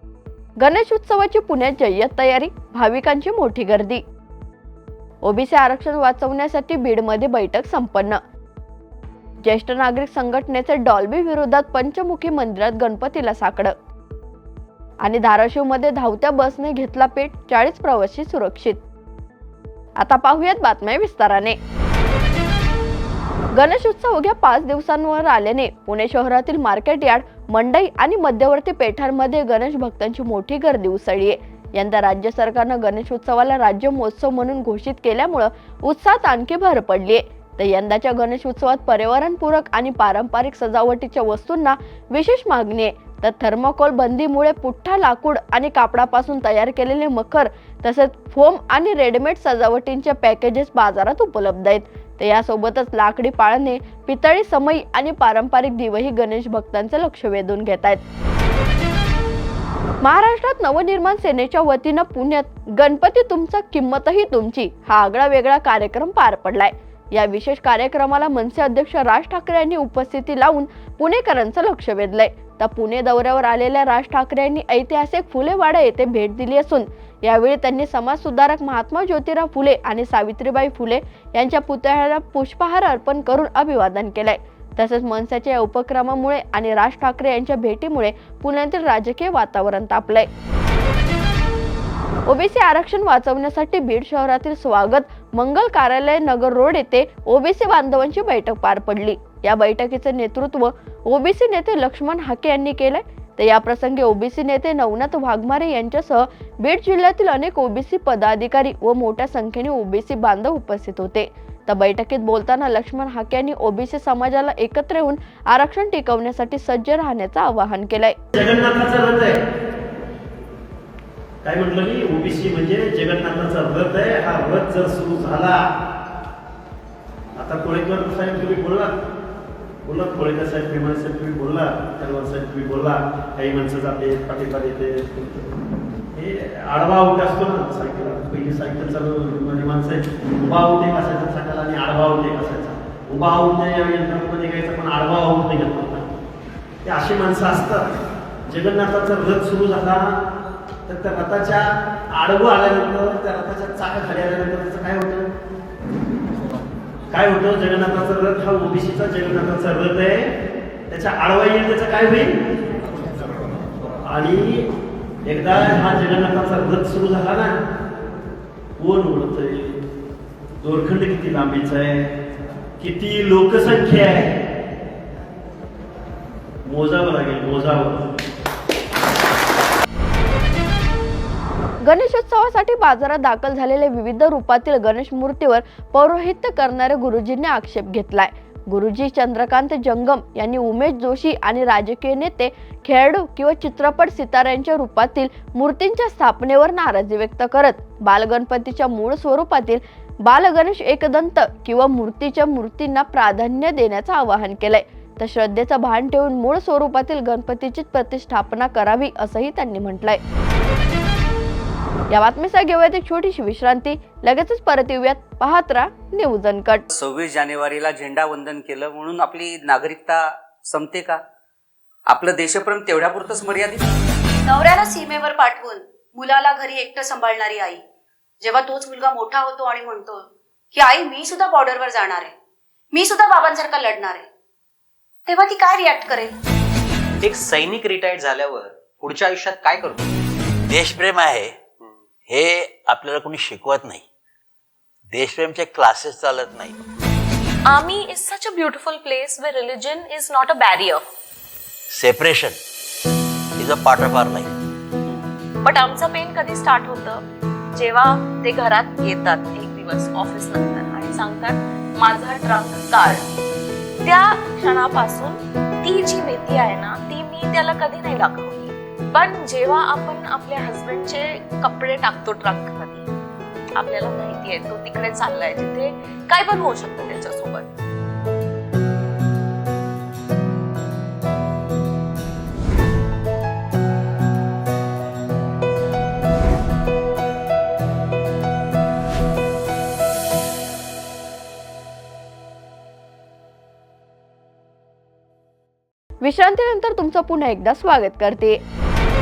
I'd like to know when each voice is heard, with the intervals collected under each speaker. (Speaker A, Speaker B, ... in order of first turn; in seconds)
Speaker A: 0.6-4.0, 5.2-8.2, 9.4-13.7, 15.0-18.8, 20.0-21.6, 23.6-58.0, 60.0-90.3, 92.3-118.2, 181.8-210.2, 212.1-216.8, 296.2-298.6
Speaker B: 118.3-119.4, 121.4-125.6, 127.4-129.0, 129.8-135.5, 136.1-146.1, 146.8-148.0, 148.5-150.2, 150.9-155.3, 157.1-160.4, 160.9-162.4, 164.0-164.7, 165.2-167.6, 168.8-169.8, 170.6-172.1, 172.8-174.3, 176.7-178.1
Speaker C: 216.9-221.2, 222.1-223.9
Speaker D: 224.5-227.8, 228.4-232.3, 232.9-234.2, 235.3-236.3
Speaker E: 237.2-240.0
Speaker F: 240.7-241.6, 242.3-244.0, 245.1-246.8, 251.9-252.6, 253.6-254.5
Speaker G: 247.7-251.1, 255.1-257.2, 257.8-263.2, 264.0-273.1, 273.8-277.7